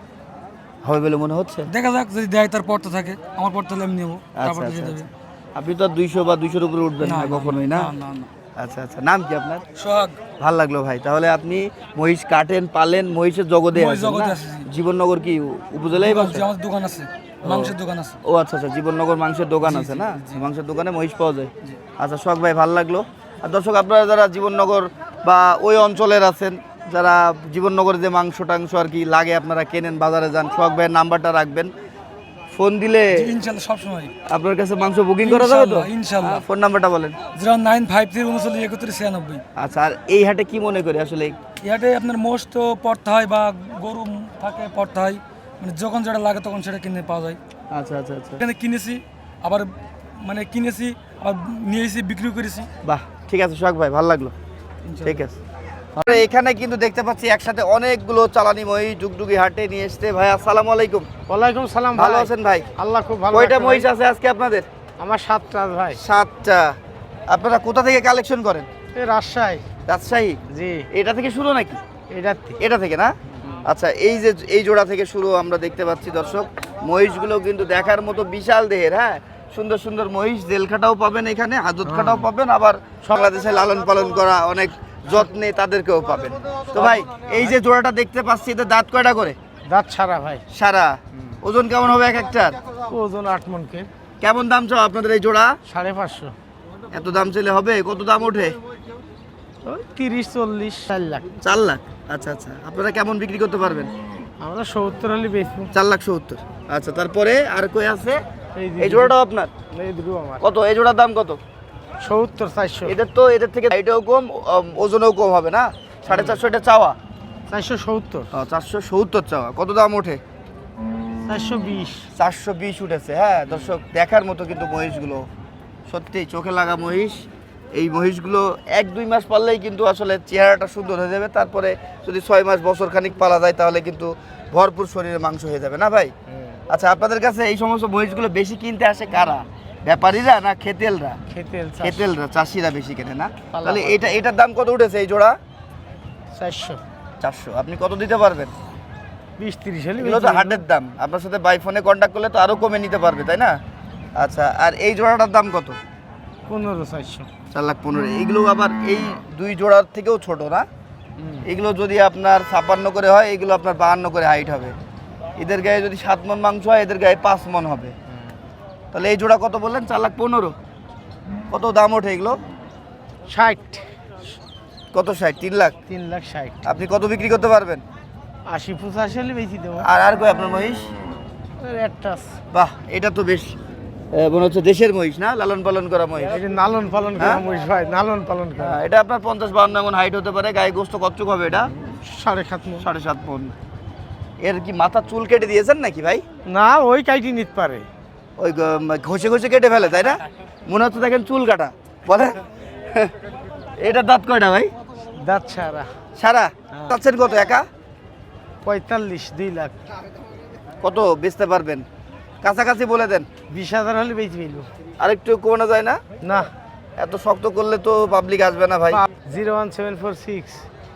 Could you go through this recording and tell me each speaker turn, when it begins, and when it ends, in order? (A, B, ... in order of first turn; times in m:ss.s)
0:00.8-0:01.7 A
0:01.7-0:05.1 B
0:04.4-0:05.0 A
0:05.5-0:07.9 A
0:07.0-0:08.3 B
0:08.6-0:09.6 A
0:09.8-0:10.2 B
0:10.4-0:16.4 A
0:13.7-0:14.7 B
0:15.9-0:18.2 B
0:17.4-0:31.7 A
0:19.6-0:20.4 B
0:32.5-0:33.3 A
0:33.1-0:34.1 B
0:34.3-0:37.2 A
0:35.2-0:36.4 B
0:37.3-0:39.4 B
0:39.6-0:41.4 A
0:41.6-0:47.4 B
0:47.7-0:48.4 A
0:48.4-0:52.7 B
0:52.8-0:54.3 A
0:54.9-0:55.2 B
0:55.0-0:55.4 A
0:56.0-1:01.1 A
1:01.3-1:03.9 C
1:01.9-1:02.7 A
1:03.3-1:04.7 A
1:05.0-1:06.0 C
1:06.0-1:06.7 A
1:07.3-1:08.7 A
1:08.9-1:09.6 C
1:09.8-1:10.4 A
1:10.5-1:10.8 C
1:10.9-1:11.8 A
1:12.1-1:12.6 C
1:12.6-1:13.1 A
1:13.6-1:29.4 A
1:29.6-1:30.4 C
1:30.5-1:32.6 A
1:32.9-1:33.9 C
1:34.2-1:35.5 A
1:35.7-1:36.3 C
1:36.9-1:38.6 A
1:39.6-1:41.3 C
1:41.4-1:43.9 A
1:44.4-1:45.7 C
1:45.7-1:48.2 A
1:48.6-1:49.1 C
1:48.8-1:49.5 A
1:49.7-1:50.4 C
1:50.4-1:51.4 A
1:52.0-1:52.9 C
1:52.8-1:57.0 A
1:56.1-1:56.4 C
1:57.5-1:58.3 C
1:58.3-2:00.2 A
2:01.2-2:02.1 C
2:02.2-2:05.3 A
2:05.9-2:16.1 A
2:16.7-2:21.2 A
2:21.3-2:22.1 C
2:21.8-2:25.4 A
2:23.5-2:24.1 C
2:26.3-2:26.8 C
2:27.2-2:28.5 A
2:29.4-2:30.6 C
2:30.0-2:33.6 A
2:34.2-2:35.8 A
2:36.5-2:37.3 C
2:37.5-2:40.6 A
2:41.4-2:44.7 A
2:45.4-2:47.9 A
2:48.9-2:50.5 A
2:51.5-2:52.4 A
2:53.3-2:53.8 C
2:54.9-2:55.8 A
2:55.9-2:56.6 C
2:56.6-2:57.8 A
2:58.5-2:59.9 C
2:59.8-3:00.9 A
3:01.6-3:02.3 C
3:02.5-3:03.5 A
3:04.1-3:06.4 A
3:06.3-3:08.8 C
3:07.2-3:07.4 A
3:08.6-3:11.7 A
3:12.0-3:12.9 C
3:12.8-3:13.5 A
3:14.4-3:16.2 A
3:16.4-3:17.8 C
3:18.4-3:23.1 A
3:23.8-3:24.7 A
3:25.2-3:25.9 C
3:26.2-3:27.6 A
3:28.6-3:29.8 C
3:30.8-3:31.8 A
3:32.4-3:33.2 A
3:33.5-3:34.7 C
3:35.0-3:36.0 A
3:37.0-3:39.0 A
3:38.9-3:40.6 C